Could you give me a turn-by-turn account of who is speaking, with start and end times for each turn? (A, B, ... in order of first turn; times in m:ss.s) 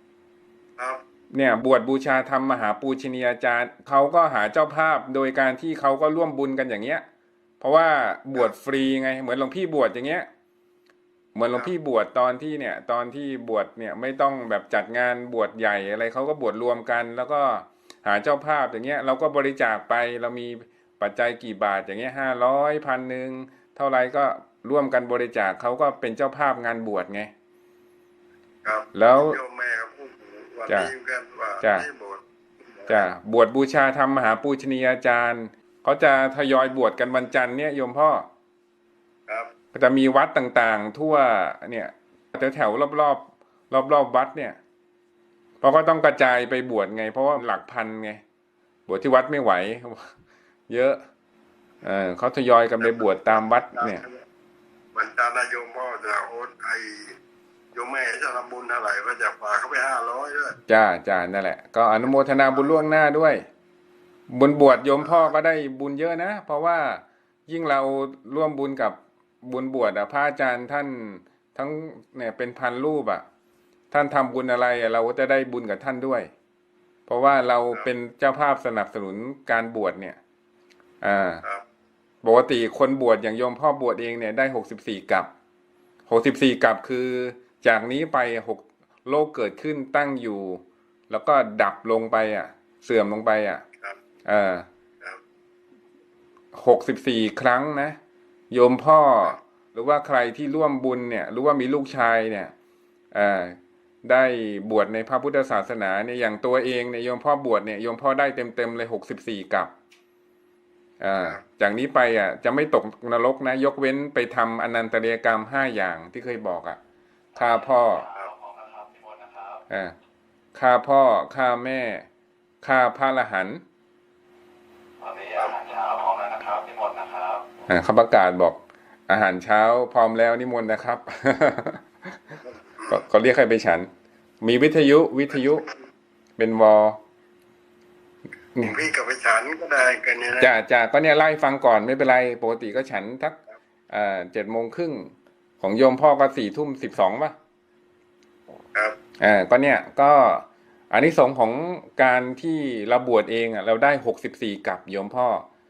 0:01.3-0:07.0 A
0:07.6-0:10.3 A
0:11.4-0:27.3 A
0:28.6-0:33.0 B
0:28.9-0:29.4 A
0:31.6-0:31.9 A
0:32.9-0:38.3 A
0:39.3-0:39.5 B
0:39.7-0:44.6 A
0:45.6-0:48.2 A
0:48.9-0:50.1 A
0:50.7-0:51.0 A
0:51.8-0:54.0 A
0:52.8-0:54.2 B
0:54.9-0:57.2 B
0:57.7-1:00.6 B
1:00.7-1:03.4 A
1:02.1-1:02.8 B
1:04.3-1:13.2 A
1:13.9-1:16.3 A
1:17.1-1:20.2 A
1:21.0-1:21.4 A
1:22.2-1:25.3 A
1:26.1-1:33.6 A
1:34.2-1:34.7 A
1:36.5-1:38.0 A
1:38.5-1:42.5 A
1:43.1-1:49.7 A
1:51.0-1:56.8 A
1:57.4-1:58.1 A
1:57.4-1:59.6 C
1:59.7-2:00.0 A
2:00.6-2:02.1 A
2:02.6-2:03.6 A
2:05.0-2:07.4 C
2:07.7-2:11.8 A
2:12.3-2:13.9 A
2:14.4-2:15.7 A
2:16.4-2:17.0 A
2:18.6-2:20.5 B
2:20.4-2:23.4 A
2:23.9-2:27.4 A
2:29.2-2:35.5 A